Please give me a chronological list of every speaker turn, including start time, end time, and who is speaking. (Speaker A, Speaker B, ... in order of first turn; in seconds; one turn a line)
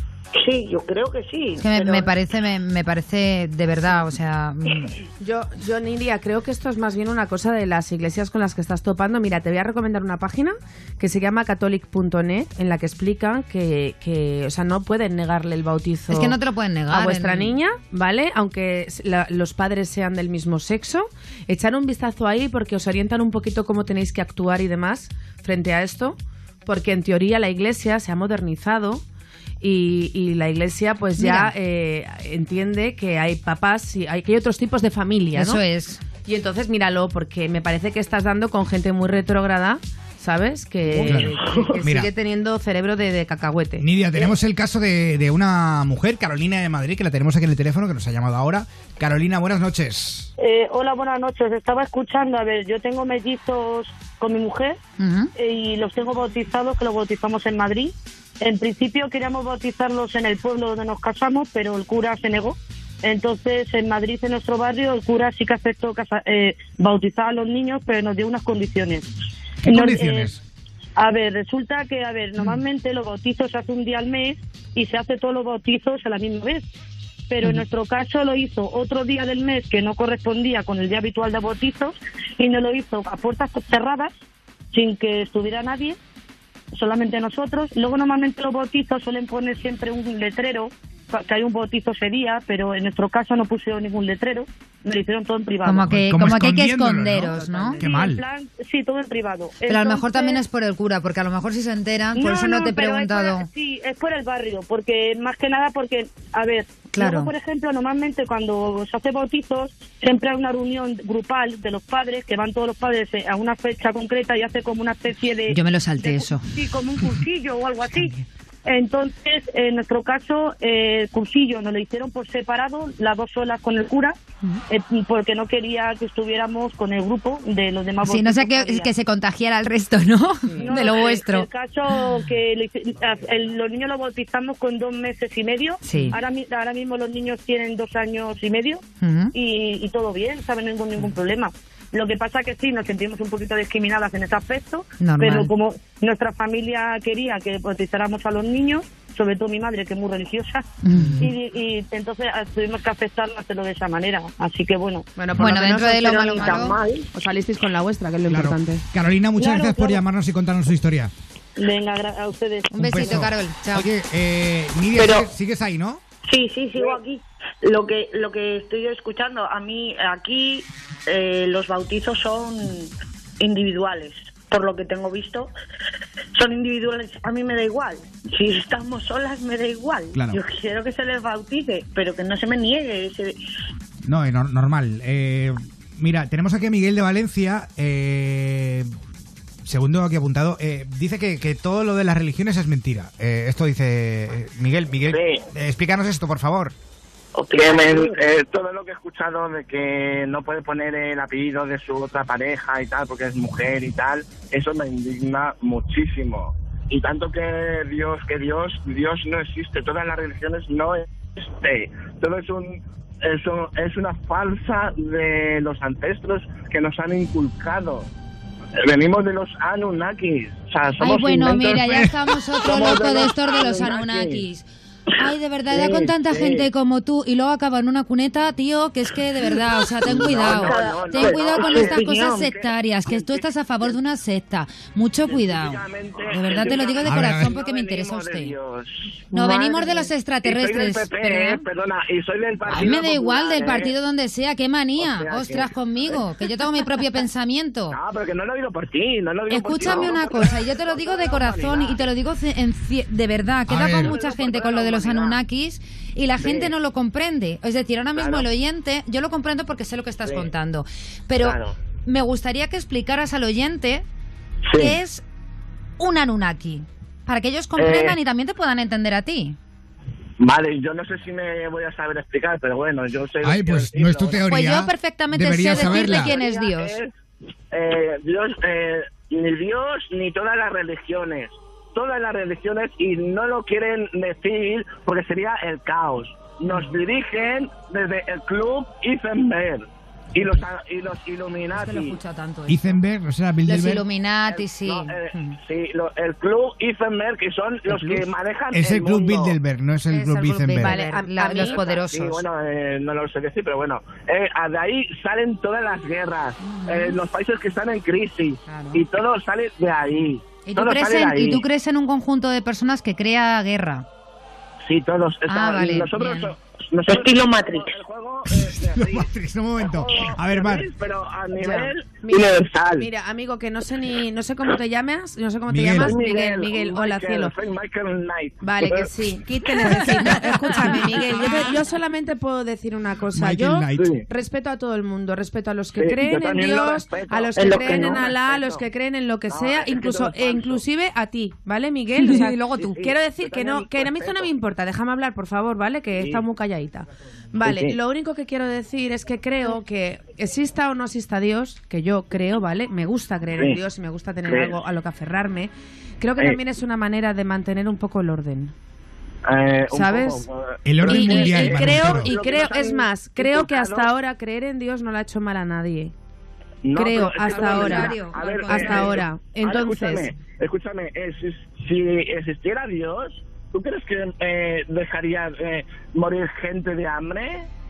Speaker A: 0.3-2.1
Speaker B: 1.6-4.9
Speaker C: 5.2-29.0
Speaker B: 16.1-17.6
Speaker C: 29.6-35.6
Speaker B: 31.2-31.5
Speaker B: 35.3-36.0
Speaker C: 36.1-43.9
Speaker A: 40.9-41.8
Speaker D: 41.0-42.1
Speaker D: 43.8-50.3
Speaker E: 50.4-54.8
Speaker B: 55.0-55.3
Speaker E: 55.3-69.1
Speaker D: 69.6-70.4
Speaker E: 69.7-70.3
Speaker E: 71.0-76.7
Speaker E: 77.3-84.1
Speaker E: 84.7-86.0
Speaker E: 86.7-95.9
Speaker B: 95.6-97.8
Speaker D: 95.8-98.2
Speaker C: 97.3-97.8
Speaker E: 97.7-100.4
Speaker B: 99.7-103.5
Speaker E: 102.2-128.9
Speaker B: 106.9-107.3
Speaker B: 115.5-116.4
Speaker B: 128.0-131.5
Speaker C: 130.5-130.7
Speaker E: 130.6-138.8
Speaker B: 135.8-136.2
Speaker B: 139.0-139.3
Speaker E: 139.3-150.6
Speaker B: 145.0-145.5
Speaker B: 150.8-151.3
Speaker D: 151.0-151.3
Speaker E: 151.2-155.1
Speaker C: 155.2-158.8
Speaker B: 155.3-156.8
Speaker A: 156.1-157.1
Speaker D: 158.3-161.1
Speaker E: 159.4-160.0
Speaker E: 161.6-163.0
Speaker B: 162.7-163.9
Speaker D: 162.8-166.0
Speaker A: 164.9-165.3
Speaker A: 166.3-175.5
Speaker A: 176.3-183.3
Speaker D: 180.1-180.4
Speaker D: 184.0-188.9
Speaker D: 189.6-196.7
Speaker F: 195.1-195.4
Speaker A: 197.3-198.3
Speaker F: 197.6-218.1
Speaker F: 218.8-222.0
Speaker B: 221.0-224.7
Speaker D: 221.9-222.2
Speaker F: 222.6-224.4
Speaker B: 225.2-238.5
Speaker F: 225.7-226.7
Speaker F: 230.0-234.0
Speaker A: 230.2-232.5
Speaker F: 235.2-243.9
Speaker D: 237.0-237.6
Speaker B: 239.3-241.6
Speaker B: 242.6-248.0
Speaker F: 245.0-246.2
Speaker F: 247.9-252.0
Speaker B: 249.5-264.1
Speaker D: 253.7-254.1
Speaker F: 253.9-255.4
Speaker F: 256.4-256.7
Speaker F: 258.1-258.5
Speaker F: 260.2-260.5
Speaker F: 261.4-261.8
Speaker F: 264.7-265.0
Speaker B: 264.8-265.2
Speaker B: 266.0-269.6
Speaker F: 267.8-268.2
Speaker F: 270.4-274.5
Speaker D: 273.4-276.4
Speaker B: 274.4-277.0
Speaker F: 275.7-277.1
Speaker F: 277.7-292.2
Speaker B: 291.7-293.0
Speaker D: 292.7-294.0
Speaker B: 293.6-295.6
Speaker F: 294.5-299.6
Speaker C: 297.9-298.3
Speaker D: 298.7-301.0
Speaker B: 300.1-302.4
Speaker C: 300.8-301.8
Speaker F: 301.5-311.6
Speaker B: 306.6-307.2
Speaker B: 308.6-309.0
Speaker B: 310.6-314.1
Speaker F: 314.8-323.1
Speaker B: 315.5-316.5
Speaker A: 317.1-317.9
Speaker D: 318.5-320.9
Speaker C: 321.5-327.5
Speaker D: 325.7-326.1
Speaker F: 325.9-331.1
Speaker C: 328.6-358.7
Speaker D: 333.3-334.1
Speaker F: 333.9-334.2
Speaker F: 335.9-338.8
Speaker A: 337.5-338.2
Speaker F: 339.5-340.8
Speaker B: 342.2-342.6
Speaker F: 342.3-344.5
Speaker F: 346.1-346.4
Speaker F: 347.6-348.0
Speaker F: 353.5-353.8
Speaker F: 354.4-354.8
Speaker F: 356.4-356.6
Speaker F: 359.4-364.1
Speaker C: 359.9-360.4
Speaker D: 360.8-362.4
Speaker C: 361.0-366.1
Speaker F: 366.8-377.7
Speaker C: 366.9-370.3
Speaker B: 367.4-369.2